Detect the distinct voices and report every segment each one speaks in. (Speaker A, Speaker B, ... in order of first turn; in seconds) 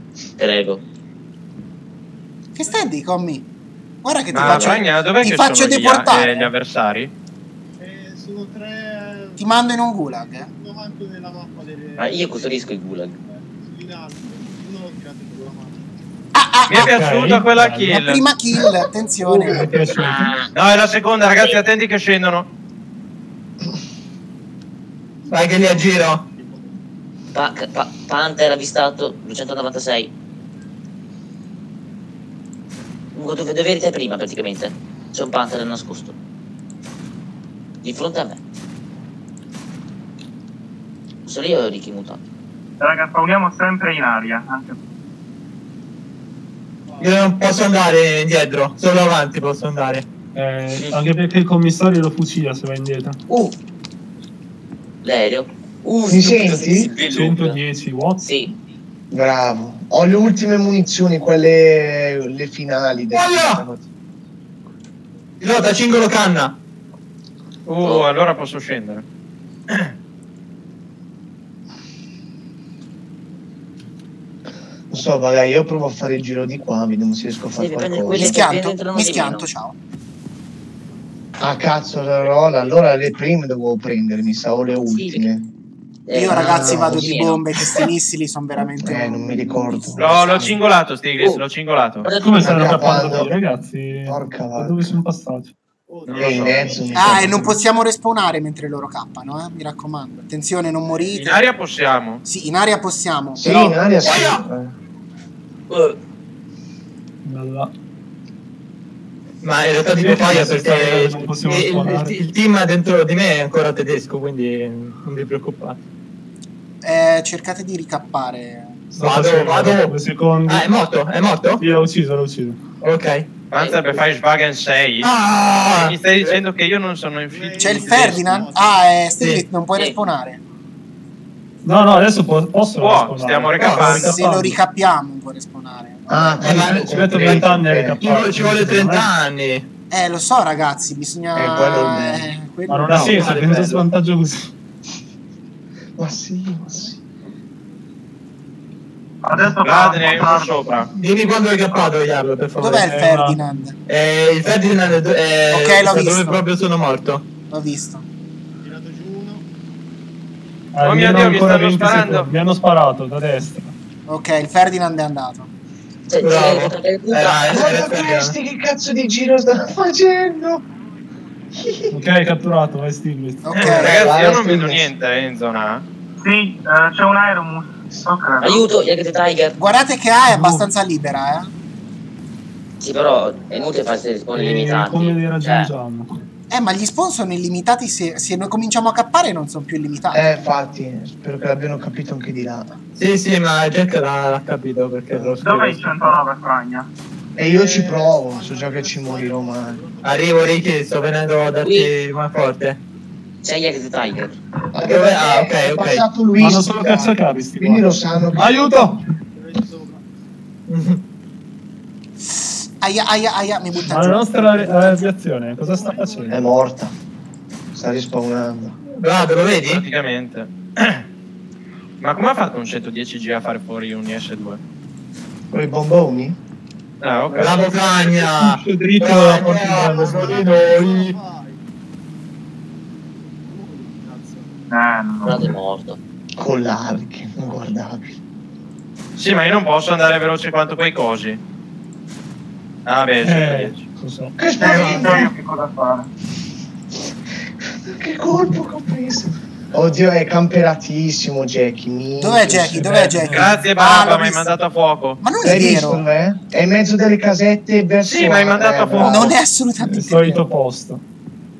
Speaker A: 0.4-0.8, 12.0-13.2, 19.9-20.5, 27.3-30.1, 33.1-36.1, 37.8-38.4, 41.2-42.2, 55.0-57.6, 58.2-58.5, 77.6-79.5, 84.9-85.3, 86.1-87.9, 90.0-90.5, 92.0-93.0, 105.7-105.9, 123.5-123.8, 166.1-167.5, 178.4-179.6, 182.8-185.7, 201.6-201.9, 203.4-204.4, 235.2-236.0
Speaker B: 2.5-3.5, 4.0-6.5, 9.4-10.5, 16.3-16.9, 17.9-19.9, 56.2-57.0, 78.1-79.8, 86.1-89.6, 96.9-101.4, 102.2-103.4, 116.8-118.8, 127.6-130.4, 133.6-136.4, 139.9-143.2, 152.6-153.8, 155.5-156.4, 157.5-158.0, 164.1-165.5, 173.4-174.1, 179.6-181.5, 186.5-190.4, 212.3-215.0, 252.2-254.5, 255.2-256.0, 259.0-260.4
Speaker C: 2.6-3.0, 4.4-4.7, 7.8-9.4, 10.5-12.5, 13.2-15.9, 25.5-26.7, 46.9-47.6, 95.9-97.6, 127.3-128.9, 158.6-159.4, 197.4-201.0, 209.3-210.0, 215.6-216.5, 227.5-228.1, 229.2-231.7, 233.3-234.6
Speaker D: 4.3-7.1, 16.7-18.2, 20.5-22.5, 67.7-69.0, 90.0-92.1, 101.1-102.2, 123.5-125.1, 125.7-128.4, 132.8-134.1, 149.6-150.9, 160.8-162.3, 173.5-175.8, 219.7-221.0, 222.0-224.6, 227.0-227.6, 239.2-241.4, 242.8-243.8, 253.3-255.2, 258.1-259.3
Speaker E: 16.7-17.9, 19.2-20.3, 50.3-53.2, 57.0-58.3, 92.2-95.5, 96.1-97.1, 107.2-107.7, 110.0-112.2, 119.0-120.7, 121.6-122.6, 131.6-134.5, 136.5-139.1, 142.7-144.5, 152.7-153.4, 160.7-163.7, 171.9-173.5, 180.3-180.7, 184.3-186.1, 195.5-195.8, 206.4-208.9, 213.9-216.4, 228.2-230.6, 243.2-244.3, 252.7-253.6, 259.8-261.0
Speaker F: 25.3-26.2, 47.0-50.1, 63.1-63.6, 65.4-66.6, 104.0-104.4, 109.4-115.8, 119.0-120.0, 120.5-121.6, 122.8-123.3, 125.0-126.0, 129.2-129.4, 133.6-134.4, 136.4-137.4, 138.0-139.7, 142.9-143.8, 150.9-152.9, 153.9-157.2, 166.2-168.3, 193.0-195.8, 200.0-202.8, 204.8-206.0, 210.7-211.0, 219.0-219.8, 227.3-231.2
Speaker G: 42.8-44.8, 149.2-150.6, 176.2-178.7, 195.4-196.9, 234.7-235.6, 244.6-246.1
Speaker H: 56.1-56.9, 59.1-63.8, 74.9-78.4, 81.4-85.5, 86.3-87.2, 88.8-90.5, 92.3-93.3, 94.0-95.0, 96.2-97.6, 103.3-104.7, 136.1-138.0, 141.3-142.3, 146.0-147.0, 167.5-170.6, 171.6-171.9, 173.6-174.9, 190.1-192.8, 195.1-195.4, 197.3-199.8, 204.7-209.0, 216.3-216.9, 217.7-218.8, 225.5-226.4, 236.4-238.1, 244.4-245.3, 247.8-252.9, 255.4-259.4